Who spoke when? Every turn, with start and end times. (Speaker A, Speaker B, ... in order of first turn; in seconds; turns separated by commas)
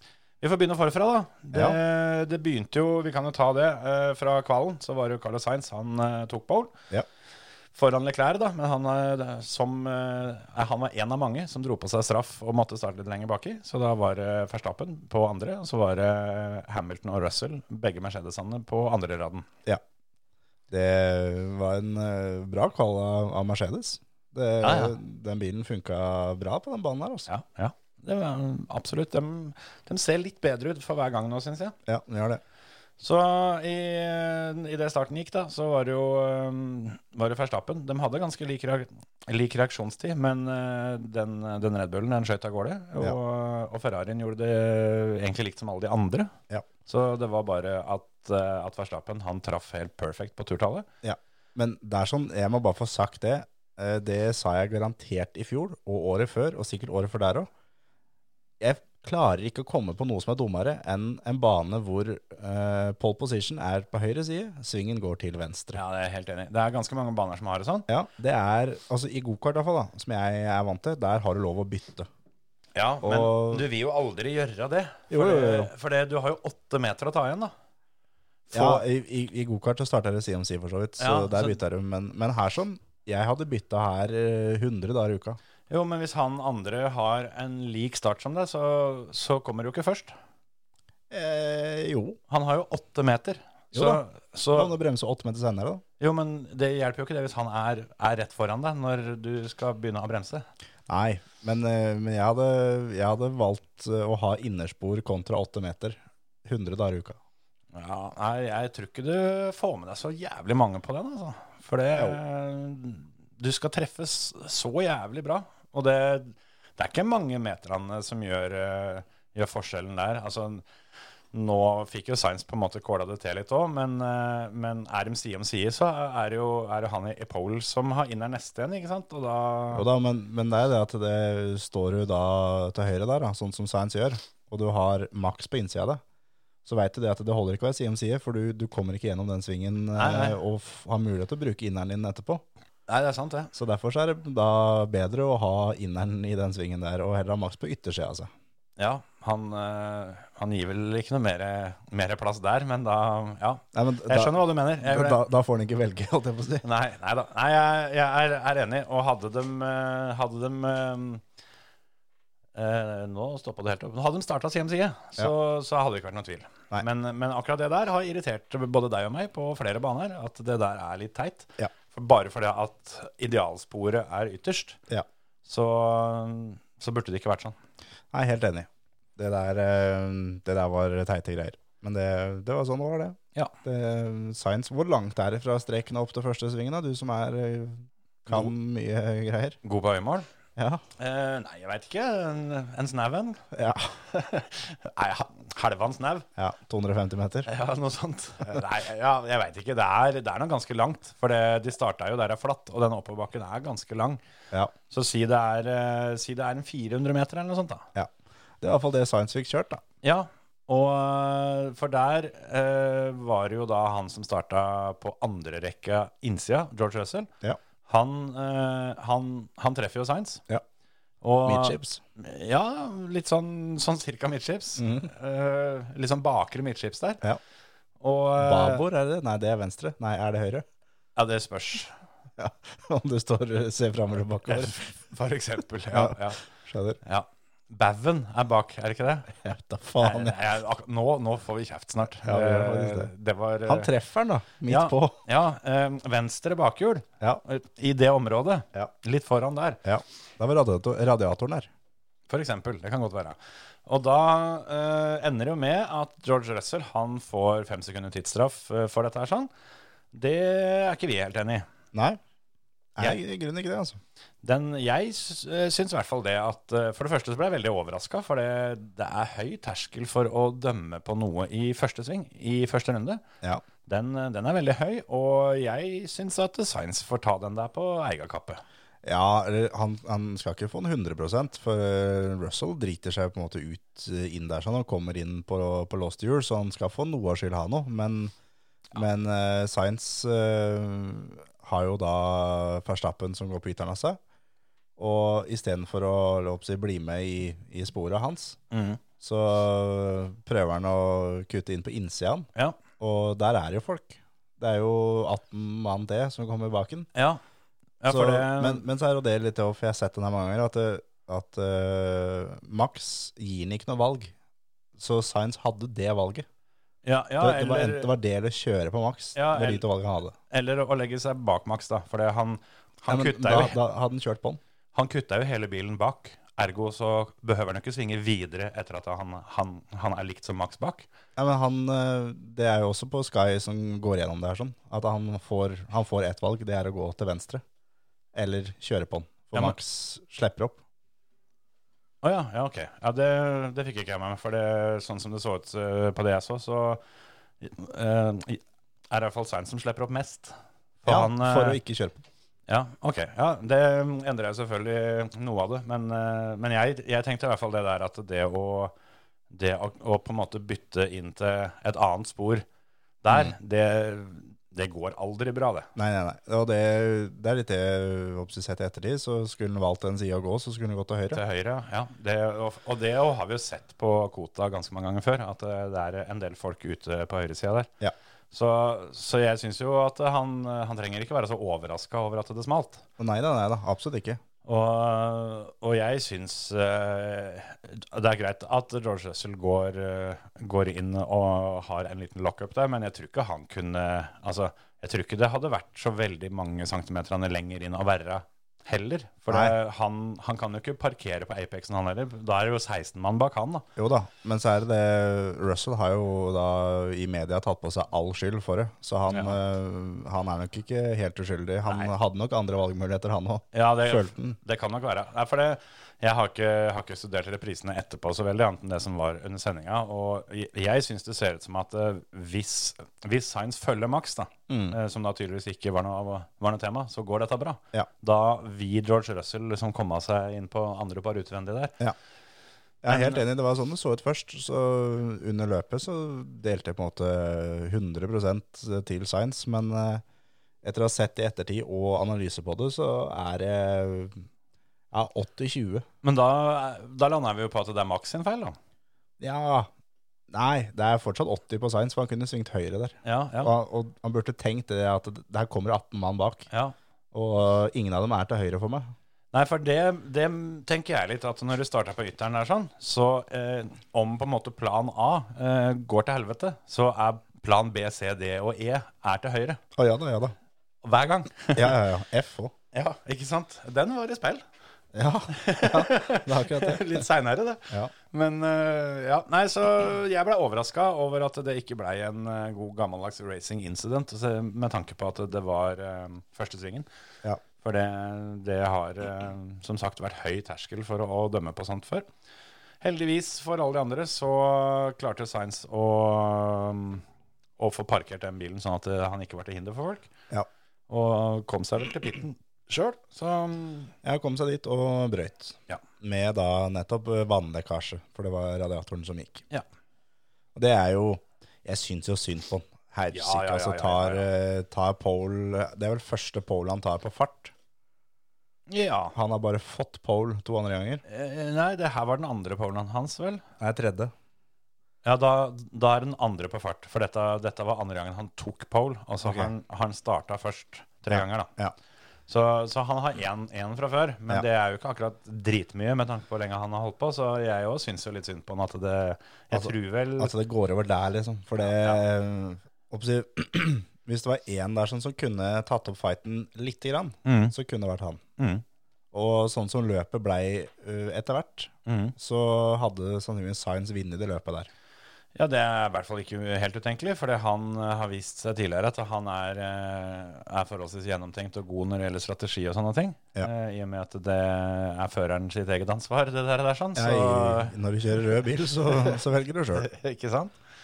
Speaker A: 0.4-6.7, Speaker A: 7.7-19.5, Speaker B: 20.7-27.3, Speaker A: 24.6-24.9, Speaker A: 27.3-31.8, Speaker B: 31.9-32.4, Speaker A: 33.0-46.3, Speaker A: 46.9-50.9, Speaker B: 51.0-57.5, Speaker B: 58.6-65.8, Speaker A: 65.7-67.9, Speaker B: 67.9-72.1, Speaker A: 72.8-77.5, Speaker B: 73.0-73.7, Speaker B: 75.1-75.7, Speaker A: 78.5-78.8, Speaker B: 78.5-85.4, Speaker A: 81.0-81.6, Speaker A: 85.7-90.2, Speaker B: 91.1-92.2, Speaker A: 92.3-94.7, Speaker B: 93.7-94.0, Speaker B: 94.5-95.8, Speaker A: 96.0-100.5, Speaker B: 100.9-107.2, Speaker A: 107.7-120.6, Speaker A: 121.3-129.9, Speaker B: 129.7-136.0, Speaker B: 136.6-142.4, Speaker A: 140.0-140.4, Speaker A: 142.9-143.5, Speaker B: 143.5-148.3, Speaker A: 148.8-155.2, Speaker B: 153.7-156.6, Speaker A: 156.6-161.2, Speaker A: 162.5-174.8, Speaker A: 175.4-177.6, Speaker B: 178.1-189.6, Speaker A: 189.6-190.3, Speaker B: 190.6-190.8, Speaker A: 191.0-193.4, Speaker B: 193.5-193.9, Speaker A: 194.0-196.2, Speaker B: 196.4-197.5, Speaker A: 197.5-204.2, Speaker A: 204.9-207.9, Speaker B: 207.9-209.8, Speaker A: 210.0-217.3, Speaker A: 217.9-220.4, Speaker A: 221.2-227.2, Speaker B: 221.4-222.0, Speaker B: 224.8-225.1, Speaker A: 228.0-228.8, Speaker B: 228.4-230.7, Speaker A: 231.2-232.0, Speaker B: 232.4-234.8, Speaker A: 234.5-236.4, Speaker B: 235.9-237.0, Speaker A: 237.0-239.4, Speaker B: 239.4-240.4, Speaker A: 240.0-243.9, Speaker B: 242.2-243.1, Speaker B: 243.7-245.2, Speaker A: 244.7-249.8, Speaker B: 249.8-251.7, Speaker A: 252.3-259.5, Speaker A: 260.1-261.6, Speaker B: 261.9-262.2, Speaker B: 263.0-264.0, Speaker A: 264.4-273.2, Speaker A: 273.9-278.6, Speaker B: 279.0-288.3, Speaker B: 288.9-294.2, Speaker B: 295.0-298.6, Speaker A: 298.7-299.0, Speaker B: 299.2-307.1, Speaker A: 307.1-307.4, Speaker A: 308.0-308.8, Speaker B: 308.1-314.3, Speaker B: 315.0-316.5, Speaker A: 317.0-318.1, Speaker B: 317.4-320.4, Speaker A: 319.4-319.9, Speaker A: 320.5-323.8, Speaker B: 323.1-324.6, Speaker A: 324.9-331.1, Speaker B: 331.4-337.6, Speaker B: 338.3-340.8, Speaker A: 342.2-347.0, Speaker A: 347.6-351.8, Speaker B: 351.1-352.2, Speaker A: 352.7-358.9, Speaker A: 359.5-362.6, Speaker A: 363.2-365.9, Speaker B: 366.0-371.4, Speaker A: 371.3-377.9, Speaker A: 378.5-383.0, Speaker B: 383.2-384.4, Speaker A: 384.6-403.9, Speaker B: 399.5-399.8, Speaker B: 404.0-414.6, Speaker A: 409.3-409.6, Speaker A: 411.9-412.1, Speaker A: 413.7-431.9, Speaker B: 424.7-425.0, Speaker B: 433.0-440.2, Speaker A: 433.1-433.4, Speaker B: 440.8-444.5, Speaker B: 445.1-446.0, Speaker A: 446.2-448.8, Speaker B: 449.4-449.9, Speaker B: 450.5-456.7, Speaker A: 453.2-453.7, Speaker A: 456.7-457.0, Speaker B: 457.3-459.1, Speaker A: 459.5-469.8, Speaker B: 470.0-470.5, Speaker A: 471.0-472.0, Speaker B: 471.8-472.7, Speaker A: 472.9-474.6, Speaker B: 475.1-477.2, Speaker A: 475.5-487.1, Speaker A: 487.8-492.3, Speaker A: 493.0-497.2, Speaker A: 497.8-500.3, Speaker A: 501.1-504.1, Speaker B: 504.2-509.6, Speaker B: 510.8-517.7, Speaker A: 513.3-514.5, Speaker A: 518.9-519.3, Speaker B: 519.3-521.2, Speaker A: 521.2-523.6, Speaker B: 523.8-524.3, Speaker A: 525.2-531.7, Speaker B: 529.4-529.7, Speaker B: 531.3-531.9, Speaker A: 532.5-540.5, Speaker B: 539.7-548.4, Speaker A: 541.8-542.2, Speaker A: 547.4-547.7, Speaker A: 548.6-548.8, Speaker B: 549.3-554.9, Speaker A: 552.1-552.3, Speaker A: 555.5-567.9, Speaker B: 567.1-570.1, Speaker A: 569.9-570.8